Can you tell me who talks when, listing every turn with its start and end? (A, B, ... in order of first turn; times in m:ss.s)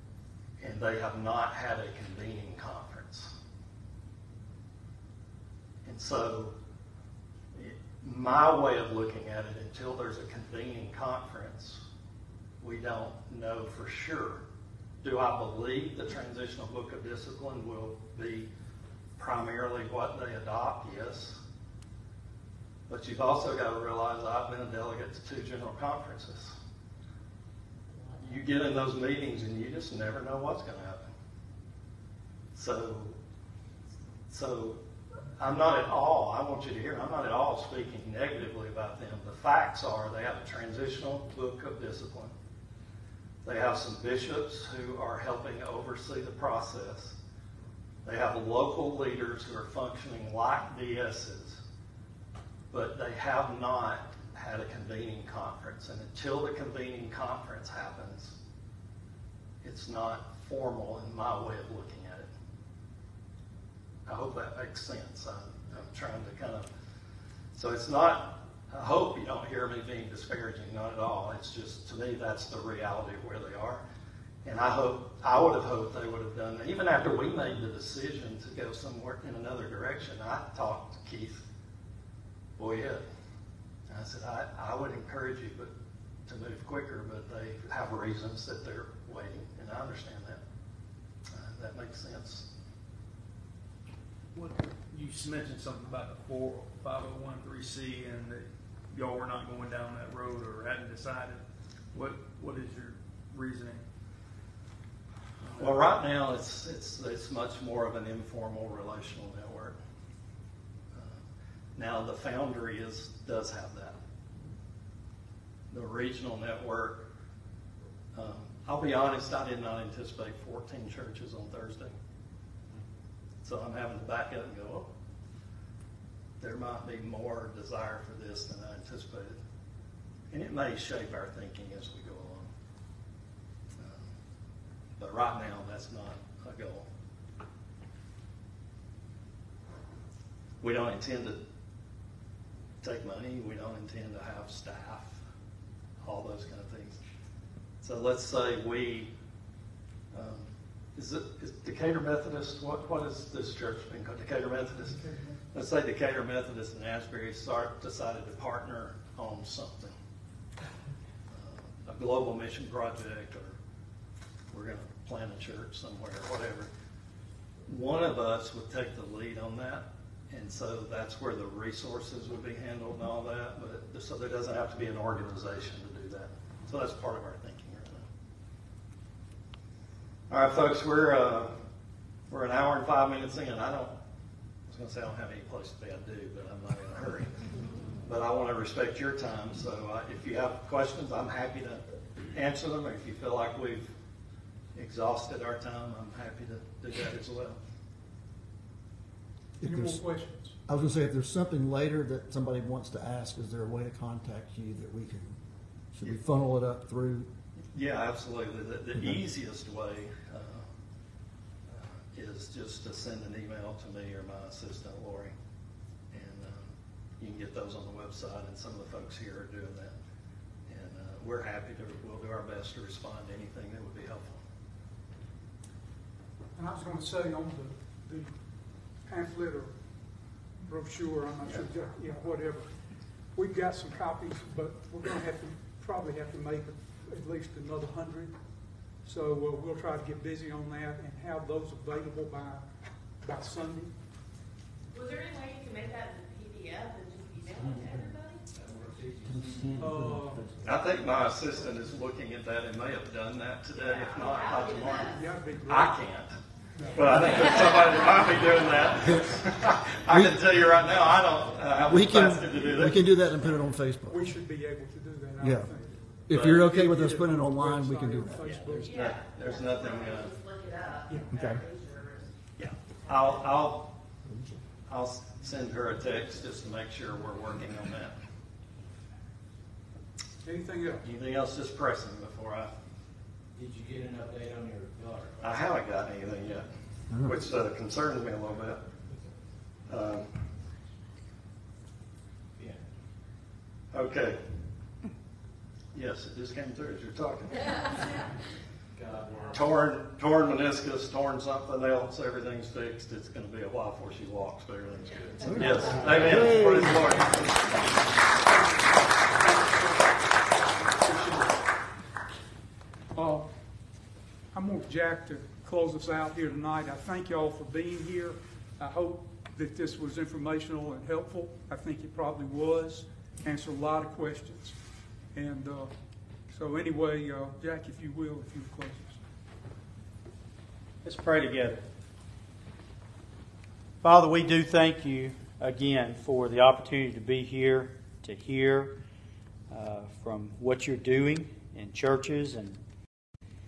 0:00.6-0:03.3 A
0:05.8-0:06.5 A
0:07.5-0:11.8 A
0:12.6-0:14.4 A
0:15.0-0:18.5 A
0:19.2-0:21.4 A
0:22.9-0:26.6 A
0:28.2-0:31.1 A
0:32.6-0:33.2 A
0:34.3-0:34.8 A
0:35.4-0:42.3 A
0:43.4-0:47.2 A
0:48.0-0:51.6 A
0:52.7-0:58.4 A
0:59.6-1:02.3 A
1:04.1-1:06.7 A
1:07.5-1:13.8 A
1:14.4-1:21.4 A
1:22.6-1:23.0 A
1:23.9-1:25.7 A
1:26.3-1:30.4 A
1:31.3-1:32.5 A
1:34.3-1:41.4 B
1:41.9-1:43.8 B
1:45.4-1:45.8 B
1:45.6-1:49.8 A
1:50.9-1:51.2 A
1:51.8-1:54.0 A
1:55.7-1:57.0 A
1:58.1-2:02.0 A
2:03.4-2:04.9 A
2:06.4-2:09.4 A
2:10.3-2:12.5 A
2:13.8-2:14.1 A
2:15.0-2:16.9 A
2:20.6-2:21.4 A
2:22.8-2:25.2 A
2:26.0-2:27.0 A
2:27.8-2:29.1 A
2:30.1-2:39.9 A
2:41.3-2:43.6 A
2:44.5-2:46.7 A
2:47.7-2:58.1 A
3:00.3-3:01.5 A
3:02.3-3:03.9 A
3:04.7-3:07.3 A
3:08.1-3:13.9 A
3:14.8-3:17.6 A
3:19.6-3:20.0 C
3:19.6-3:20.6 D
3:20.7-3:25.4 C
3:25.9-3:27.3 C
3:27.7-3:30.7 A
3:31.7-3:35.3 A
3:36.1-3:40.0 A
3:40.7-3:44.4 A
3:46.6-3:48.4 D
3:49.0-3:49.7 D
3:50.6-3:52.7 D
3:53.3-3:58.4 D
3:59.0-4:02.7 D
4:03.2-4:03.9 D
4:04.9-4:08.5 E
4:08.5-4:09.9 F
4:09.5-4:10.3 C
4:09.8-4:10.5 D
4:10.6-4:16.4 A
4:13.8-4:15.2 E
4:15.1-4:16.0 D
4:16.8-4:17.2 D
4:16.9-4:23.1 A
4:20.1-4:20.4 C
4:21.9-4:24.2 C
4:24.1-4:28.9 D
4:25.4-4:25.7 C
4:26.3-4:28.5 C
4:26.3-4:26.6 A
4:28.4-4:29.0 F
4:28.8-4:32.3 E
4:28.9-4:30.3 A
4:31.1-4:31.4 D
4:31.4-4:31.6 C
4:32.6-4:33.9 A
4:33.0-4:33.4 E
4:34.3-4:34.6 C
4:34.9-4:38.2 A
4:40.4-4:41.0 D
4:41.0-4:42.7 A
4:43.5-4:45.6 F
4:45.4-4:46.7 A
4:47.2-4:48.8 A
4:49.9-4:50.3 A
4:53.9-4:54.4 A
4:55.9-4:57.9 A
4:58.9-4:59.8 F
4:59.5-5:07.8 A
5:05.5-5:06.9 C
5:05.9-5:06.6 F
5:11.0-5:11.5 D
5:13.2-5:13.5 D
5:14.5-5:24.8 D
5:25.3-5:25.9 D
5:26.5-5:29.2 D
5:31.0-5:31.8 G
5:34.0-5:39.0 G
5:39.7-5:42.8 G